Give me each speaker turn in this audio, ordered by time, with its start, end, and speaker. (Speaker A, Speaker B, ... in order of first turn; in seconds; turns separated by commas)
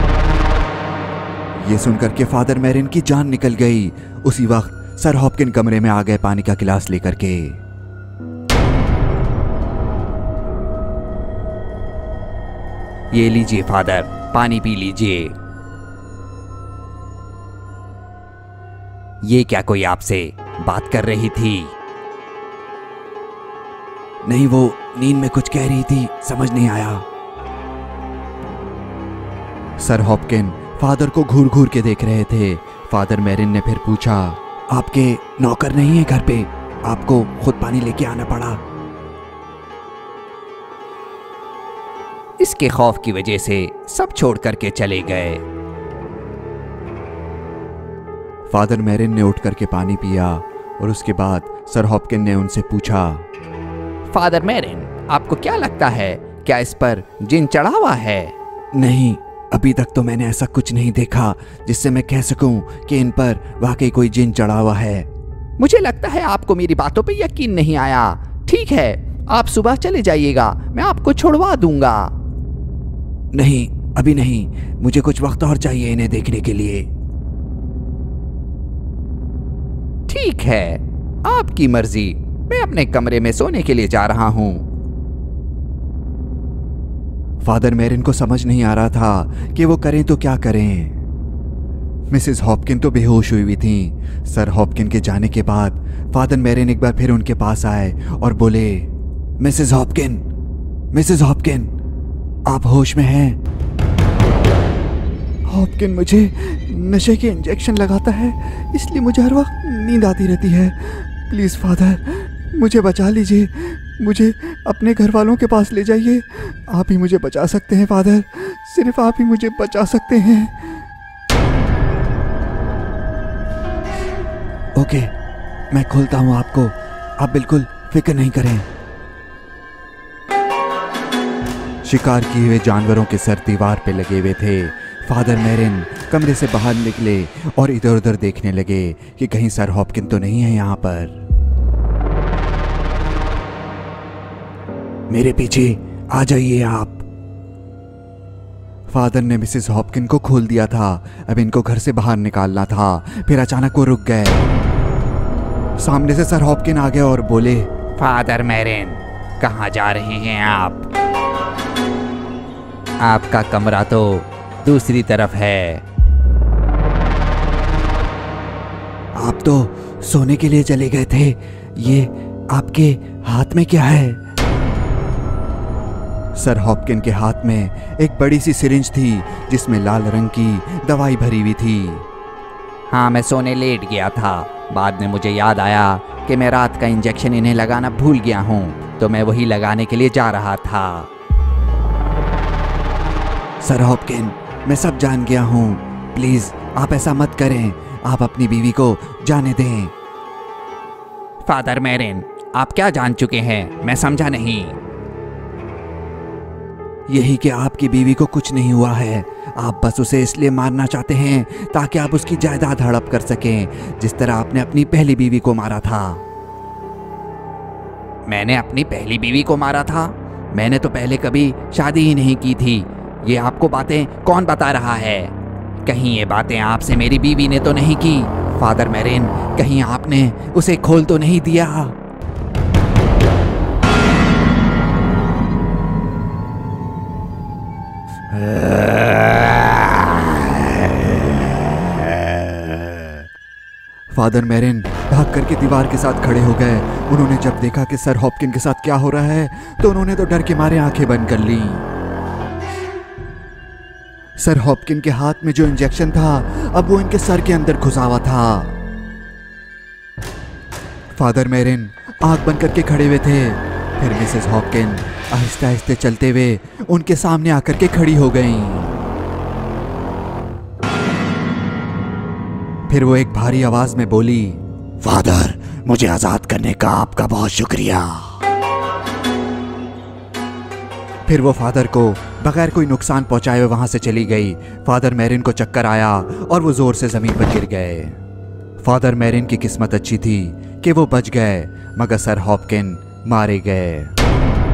Speaker A: 1.6-7.6, Speaker A: 13.1-15.2, Speaker B: 14.1-15.3, Speaker A: 19.3-21.7, Speaker B: 19.3-20.2, Speaker B: 21.0-21.7, Speaker A: 24.2-27.0, Speaker A: 29.8-38.6, Speaker B: 42.4-45.4, Speaker A: 42.4-45.3, Speaker A: 48.5-53.2, Speaker B: 54.1-58.3, Speaker A: 54.2-57.6, Speaker A: 58.7-65.1, Speaker A: 65.6-72.0, Speaker B: 65.7-72.1, Speaker A: 73.3-76.9, Speaker B: 80.1-83.3, Speaker A: 81.5-84.6, Speaker B: 84.0-84.6, Speaker A: 87.4-91.0, Speaker A: 92.1-100.2, Speaker A: 100.9-101.7, Speaker A: 102.5-103.4, Speaker A: 105.5-120.8, Speaker A: 124.8-125.1, Speaker A: 125.7-128.7, Speaker A: 131.8-141.2, Speaker A: 145.1-147.0, Speaker A: 148.9-154.6, Speaker A: 155.8-157.7, Speaker B: 158.0-160.8, Speaker B: 163.1-165.8, Speaker A: 164.7-165.3, Speaker A: 169.2-174.2, Speaker A: 176.3-182.1, Speaker A: 182.9-191.0, Speaker B: 182.9-191.1, Speaker A: 193.6-199.9, Speaker B: 201.5-204.8, Speaker A: 207.1-216.2, Speaker B: 218.3-225.3, Speaker A: 220.5-224.5, Speaker B: 225.9-230.0, Speaker A: 228.0-228.5, Speaker A: 229.5-231.9, Speaker A: 238.3-242.3, Speaker A: 244.1-251.8, Speaker A: 254.4-258.8, Speaker A: 261.1-269.0, Speaker A: 272.9-278.4, Speaker A: 281.2-288.2, Speaker A: 288.8-294.1